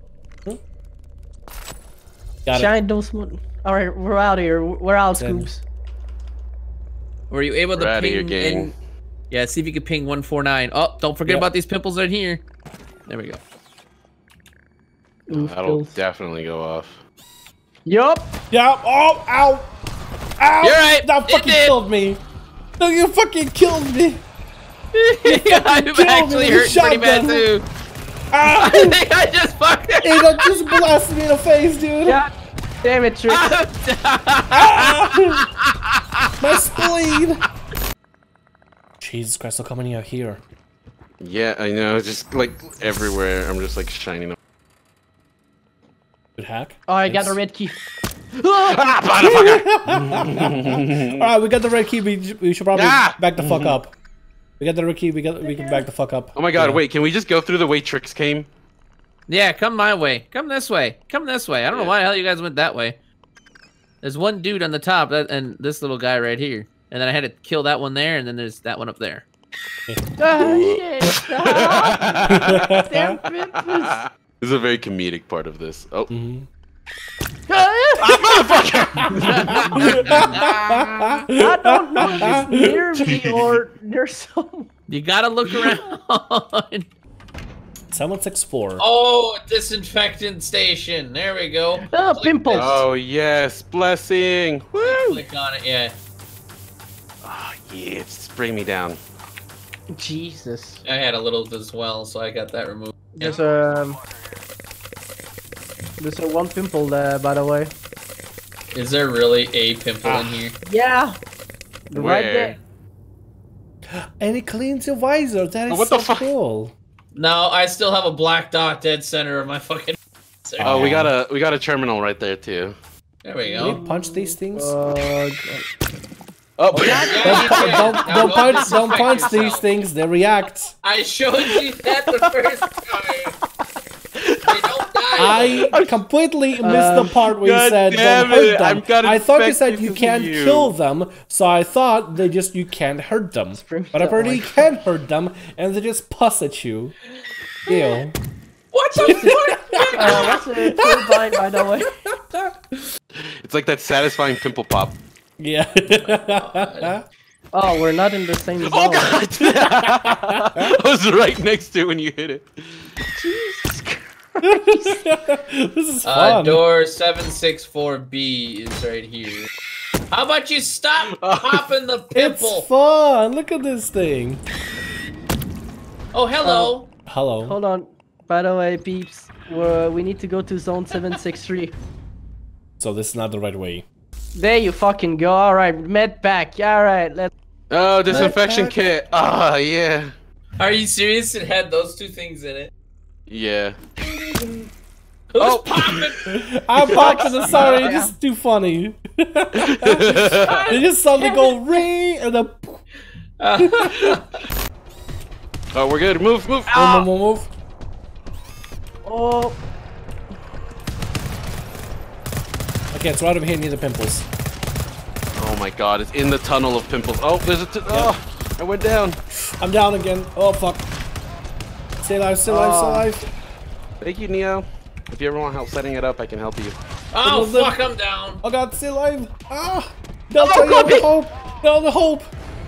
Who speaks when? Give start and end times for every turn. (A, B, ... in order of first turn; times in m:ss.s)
0:02.4-0:02.7 A
0:02.5-0:05.6 B
0:05.1-0:05.5 A
0:07.3-0:08.7 C
0:07.7-0:08.7 D
0:09.3-0:12.4 C
0:13.1-0:13.4 C
0:15.3-0:16.0 B
0:15.3-0:17.0 D
0:17.8-0:18.3 B
0:18.5-0:19.7 A
0:20.4-0:22.2 A
0:20.6-0:21.8 C
0:22.8-0:24.2 A
0:24.9-0:27.6 C
0:25.3-0:27.5 A
0:28.3-0:29.0 A
0:28.6-0:30.4 C
0:30.0-0:32.2 A
0:32.8-0:33.4 B
0:33.3-0:36.3 C
0:34.5-0:35.4 A
0:36.4-0:37.4 A
0:39.0-0:40.4 A
0:41.2-0:44.4 D
0:46.4-0:47.4 A
0:46.9-0:47.8 B
0:48.4-0:51.1 D
0:49.2-0:53.9 A
0:52.7-0:53.8 D
0:54.6-0:56.8 A
0:55.4-0:55.8 B
0:56.3-0:58.5 D
0:59.3-1:03.0 C
1:01.7-1:01.9 D
1:04.0-1:09.2 C
1:10.2-1:14.0 B
1:10.4-1:12.7 D
1:12.3-1:13.1 A
1:13.7-1:16.1 D
1:16.1-1:16.5 A
1:17.5-1:18.4 B
1:18.0-1:21.1 D
1:19.2-1:20.3 C
1:19.8-1:22.9 A
1:21.4-1:24.7 B
1:24.9-1:26.9 C
1:27.9-1:28.8 A
1:28.8-1:32.8 C
1:31.9-1:32.8 B
1:32.5-1:35.2 D
1:34.8-1:36.0 C
1:37.2-1:39.0 D
1:39.9-1:40.8 B
1:40.8-1:43.4 C
1:43.1-1:44.0 B
1:46.0-1:47.7 B
1:48.7-1:50.6 C
1:50.0-1:50.4 A
1:50.6-1:51.2 B
1:51.9-1:52.6 B
1:51.9-1:52.6 D
1:54.2-1:56.7 A
1:55.7-1:56.3 D
1:57.1-2:00.9 C
2:00.6-2:01.1 A
2:00.6-2:02.8 D
2:03.2-2:03.8 C
2:03.4-2:05.7 B
2:03.6-2:04.7 A
2:06.6-2:09.4 D
2:06.7-2:08.0 B
2:06.8-2:09.7 C
2:07.2-2:10.7 A
2:10.8-2:13.3 C
2:14.2-2:14.4 D
2:14.5-2:15.7 C
2:15.2-2:26.9 A
2:15.2-2:16.0 D
2:16.6-2:17.1 B
2:16.6-2:20.7 D
2:23.6-2:24.7 B
2:27.7-2:28.2 A
2:28.7-2:30.2 C
2:29.0-2:29.4 B
2:29.0-2:32.8 A
2:30.0-2:31.9 B
2:33.2-2:35.0 D
2:35.4-2:37.0 A
2:35.9-2:37.0 C
2:37.5-2:39.2 B
2:38.6-2:42.5 D
2:40.3-2:40.7 A
2:43.1-2:45.0 B
2:44.4-2:46.6 A
2:46.0-2:49.5 C
2:50.1-2:52.7 C
2:51.2-2:51.6 D
2:52.1-2:54.4 A
2:56.1-2:56.9 C
2:56.4-2:56.7 B
2:57.1-2:57.6 A
2:57.4-3:01.7 B
3:02.8-3:03.8 A
3:04.3-3:07.3 B
3:07.7-3:10.1 D
3:08.1-3:08.8 A
3:10.6-3:12.7 C
3:13.3-3:13.8 D
3:15.3-3:16.2 C
3:15.4-3:16.1 D
3:16.3-3:22.8 A
3:16.9-3:18.1 B
3:17.1-3:17.6 D
3:19.7-3:20.6 D
3:20.4-3:20.8 C
3:21.2-3:21.5 B
3:23.4-3:24.2 C
3:25.7-3:27.0 D
3:26.7-3:27.5 A
3:29.0-3:29.6 B
3:32.9-3:34.3 A
3:35.4-3:39.2 D
3:37.9-3:38.1 A
3:39.3-3:40.9 A
3:42.0-3:43.3 A
3:42.4-3:43.1 B
3:44.0-3:46.8 D
3:47.1-3:48.4 C
3:47.2-3:47.8 A
3:48.4-3:52.3 A
3:50.4-3:51.0 C